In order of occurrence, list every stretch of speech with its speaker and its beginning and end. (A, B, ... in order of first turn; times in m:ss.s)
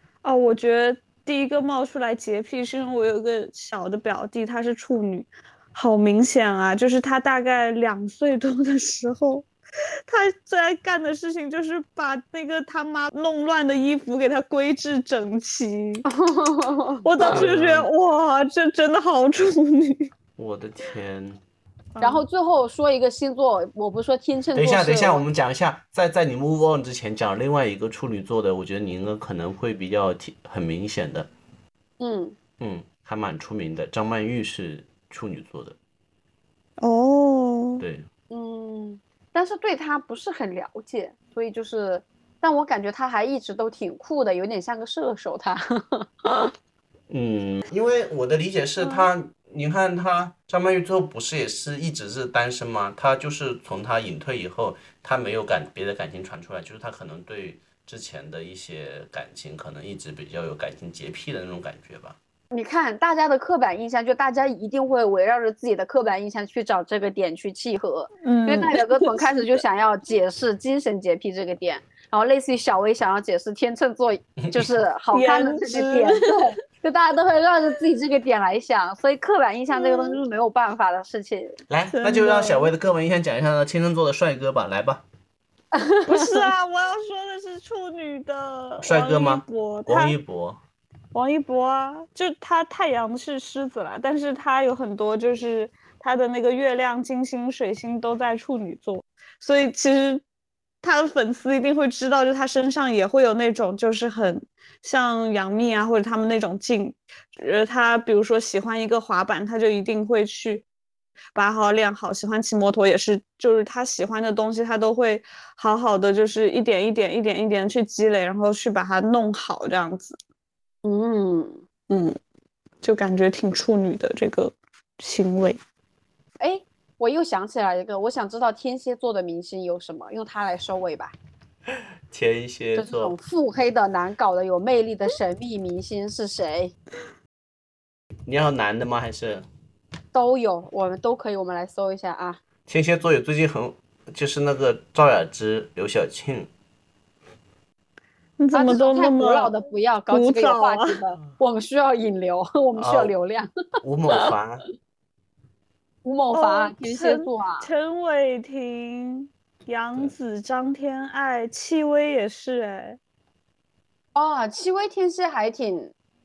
0:00.2-0:09.4 A
0:10.1-0:16.0 A
0:16.1-0:17.4 B
0:17.0-0:20.1 A
0:17.2-0:17.9 C
0:20.4-0:21.4 C
0:21.9-0:22.2 A
0:22.0-0:25.2 B
0:24.5-0:31.3 C
0:32.0-0:32.4 B
0:32.6-0:35.8 C
0:36.8-0:37.8 A
0:37.8-0:38.1 C
0:38.3-0:46.5 B
0:47.1-1:02.2 C
1:02.5-1:21.6 B
1:08.2-1:09.3 A
1:14.4-1:14.6 C
1:15.1-1:16.5 A
1:19.7-1:20.2 A
1:21.7-1:25.0 C
1:21.9-1:22.7 A
1:25.7-1:26.5 B
1:26.0-1:30.2 A
1:28.8-1:30.6 C
1:31.1-1:40.2 A
1:40.8-1:50.6 A
1:51.3-2:00.2 A
2:00.8-2:01.6 B
2:01.9-2:02.2 A
2:02.8-2:05.6 A
2:06.4-2:11.2 B
2:12.1-2:13.1 C
2:12.8-2:16.7 B
2:18.3-2:19.4 C
2:20.1-2:22.4 B
2:22.7-2:26.5 C
2:28.4-2:29.5 A
2:28.5-2:33.5 B
2:30.1-2:31.0 A
2:32.7-2:33.1 C
2:33.8-2:34.6 C
2:36.0-2:37.7 B
2:36.3-2:43.0 A
2:44.1-2:45.9 B